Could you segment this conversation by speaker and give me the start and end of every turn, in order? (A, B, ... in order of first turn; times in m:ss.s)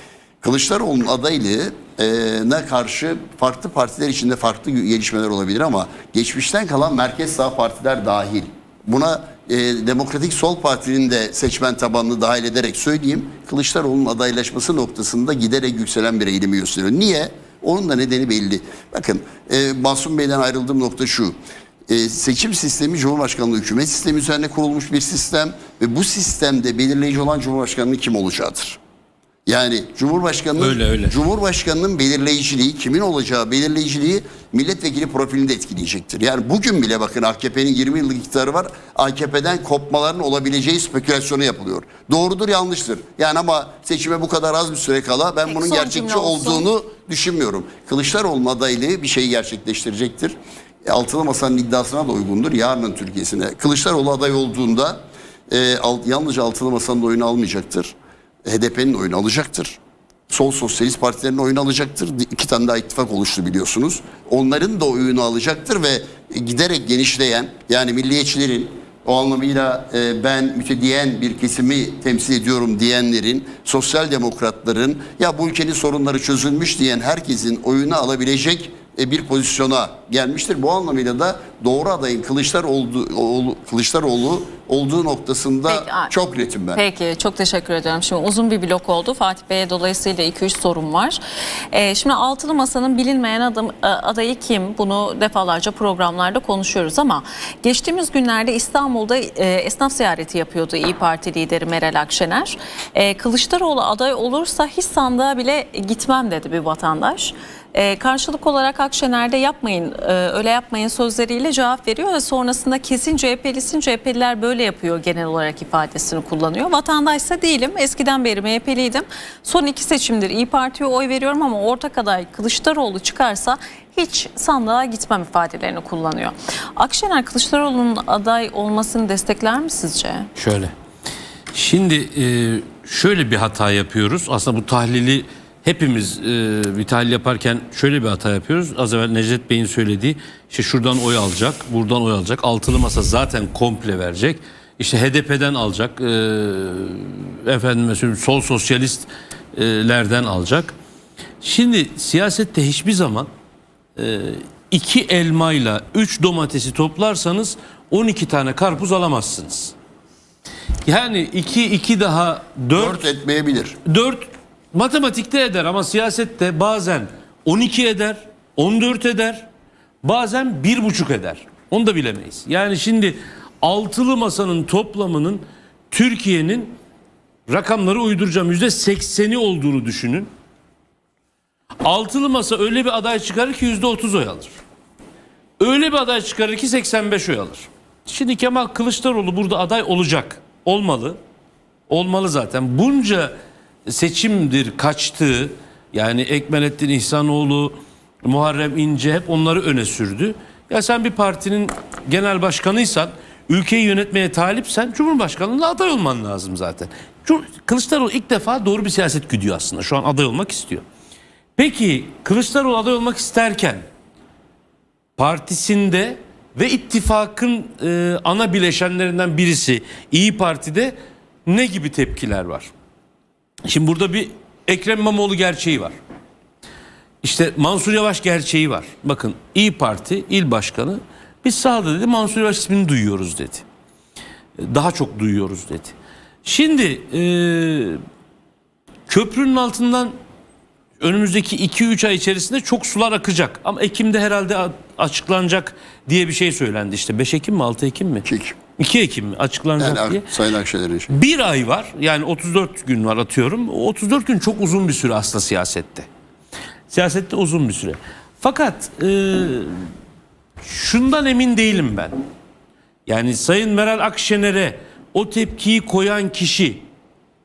0:00.4-0:21.4 A
0:21.9-0:28.8 A
0:29.4-0:57.9 A
0:30.6-0:31.2 B
0:45.4-0:46.7 C
0:58.4-0:59.8 A
1:00.3-1:26.8 A
1:25.7-1:26.1 C
1:26.8-1:31.2 C
1:31.7-2:10.3 C
2:10.4-2:10.7 B
2:11.5-2:30.7 B
2:31.4-2:33.3 B
2:34.0-2:39.7 B
2:40.8-2:43.0 B
2:42.7-2:43.8 A
2:43.8-2:49.5 B
2:50.0-2:56.7 B
2:57.5-3:00.3 B
3:01.8-3:04.5 B
3:05.6-3:11.2 B
3:11.9-3:13.3 B
3:13.9-3:30.8 B
3:31.6-3:33.8 B
3:35.2-3:42.7 B
3:43.6-3:45.9 B
3:47.2-3:53.6 B
3:54.6-3:58.0 B
3:59.1-4:00.1 B
4:01.0-4:08.2 B
4:08.2-4:08.6 A
4:08.8-4:10.3 B
4:09.8-4:11.1 A
4:11.1-4:16.1 B
4:16.9-4:19.9 B
4:20.6-4:22.2 B
4:23.0-4:26.8 B